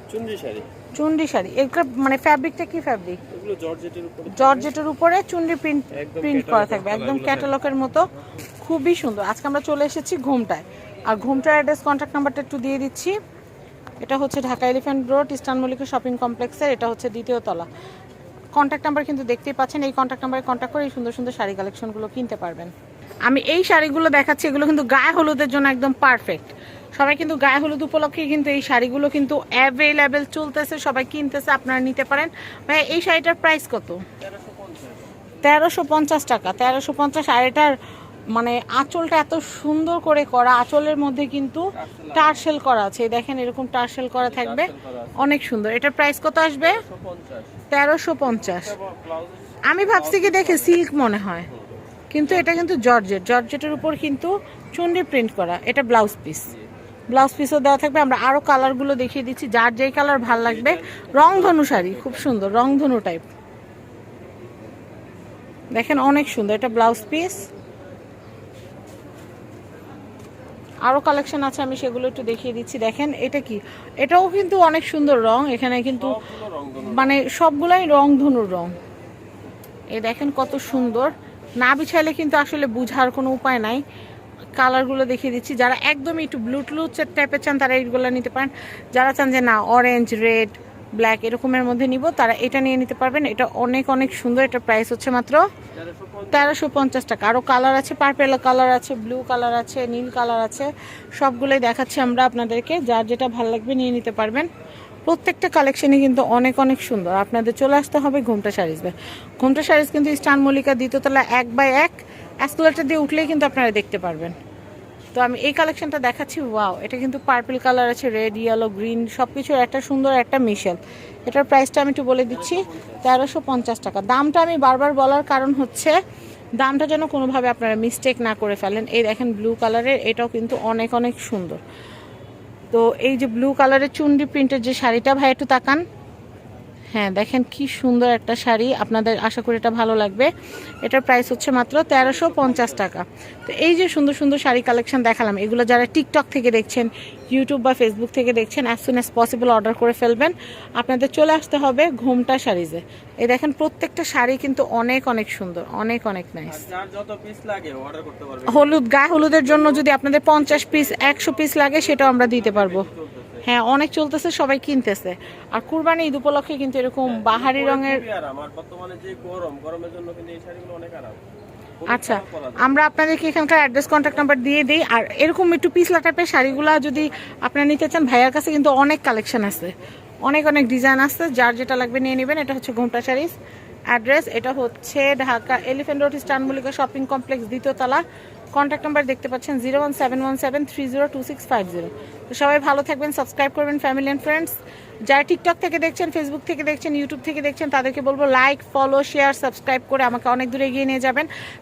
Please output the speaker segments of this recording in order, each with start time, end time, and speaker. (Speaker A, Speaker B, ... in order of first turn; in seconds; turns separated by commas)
Speaker A: 0.1-0.7, Speaker B: 0.9-3.2, Speaker A: 3.3-4.7, Speaker B: 4.3-8.1, Speaker A: 5.9-7.5, Speaker B: 8.6-13.2, Speaker B: 14.0-17.7, Speaker B: 18.5-22.7, Speaker B: 23.2-34.0, Speaker A: 34.2-35.1, Speaker B: 35.4-37.7, Speaker B: 38.3-46.8, Speaker A: 41.7-42.4, Speaker A: 44.2-45.3, Speaker A: 46.6-47.6, Speaker B: 47.7-48.7, Speaker A: 48.3-50.8, Speaker B: 49.7-51.5, Speaker B: 52.1-56.5, Speaker B: 57.1-63.2, Speaker A: 60.4-62.2, Speaker B: 65.7-67.5, Speaker B: 70.8-76.2, Speaker A: 76.0-77.2, Speaker B: 76.8-78.7, Speaker B: 79.9-83.8, Speaker B: 84.6-95.4, Speaker A: 95.7-96.5, Speaker B: 96.3-104.5, Speaker B: 105.0-114.3, Speaker B: 115.1-126.0, Speaker A: 122.3-123.0, Speaker B: 126.6-131.6, Speaker B: 132.7-135.8, Speaker B: 136.9-140.3, Speaker B: 140.8-156.6, Speaker A: 142.0-142.8, Speaker A: 156.5-158.8, Speaker B: 158.5-162.9, Speaker A: 159.4-159.8, Speaker A: 160.4-163.4, Speaker B: 163.4-168.0, Speaker A: 167.0-171.2, Speaker A: 171.8-172.7, Speaker B: 171.9-183.3, Speaker B: 183.9-194.6, Speaker B: 195.1-201.3